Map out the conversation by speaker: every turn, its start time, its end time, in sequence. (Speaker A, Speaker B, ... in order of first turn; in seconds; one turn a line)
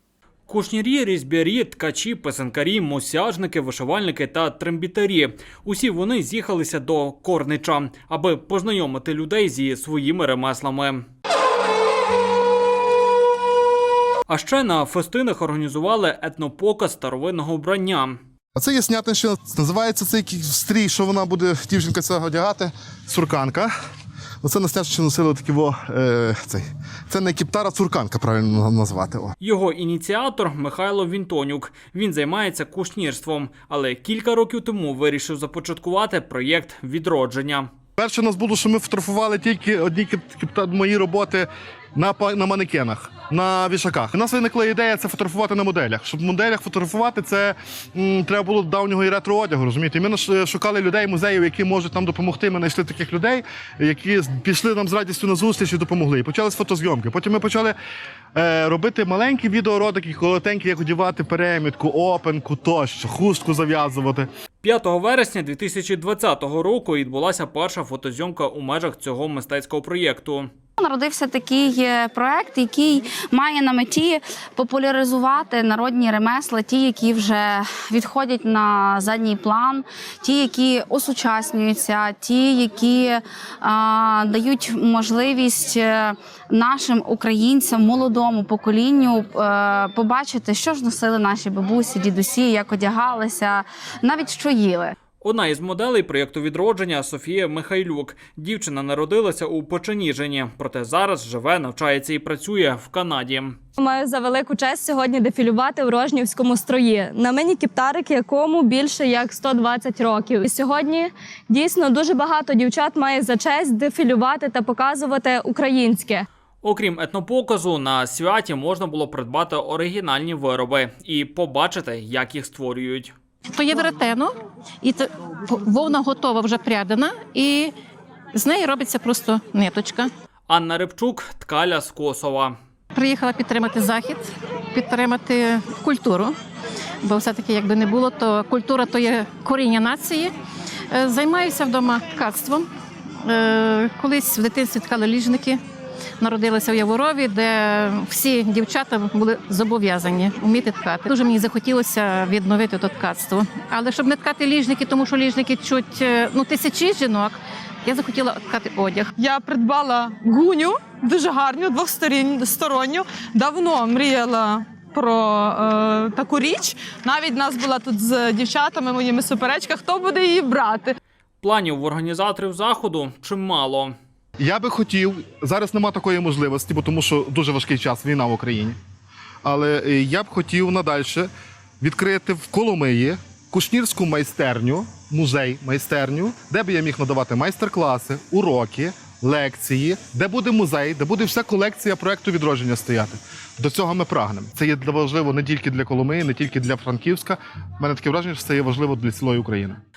Speaker A: 0.5-11.0
Speaker A: 14.3-18.2
Speaker B: 18.6-23.7
Speaker B: 24.4-29.3
Speaker A: 29.4-37.7
Speaker B: 38.0-57.8
Speaker B: 58.4-64.3
Speaker A: 64.6-70.5
Speaker C: 70.8-94.9
Speaker A: 95.2-103.6
Speaker D: 103.8-116.3
Speaker A: 116.6-123.1
Speaker E: 123.5-127.7
Speaker E: 128.3-130.1
Speaker A: 130.5-132.6
Speaker E: 132.9-136.3
Speaker E: 137.0-140.3
Speaker E: 140.9-142.7
Speaker E: 143.2-145.6
Speaker E: 146.2-159.1
Speaker F: 159.2-171.0
Speaker A: 171.4-173.9
Speaker B: 174.4-178.8
Speaker B: 179.4-181.3
Speaker B: 181.8-199.8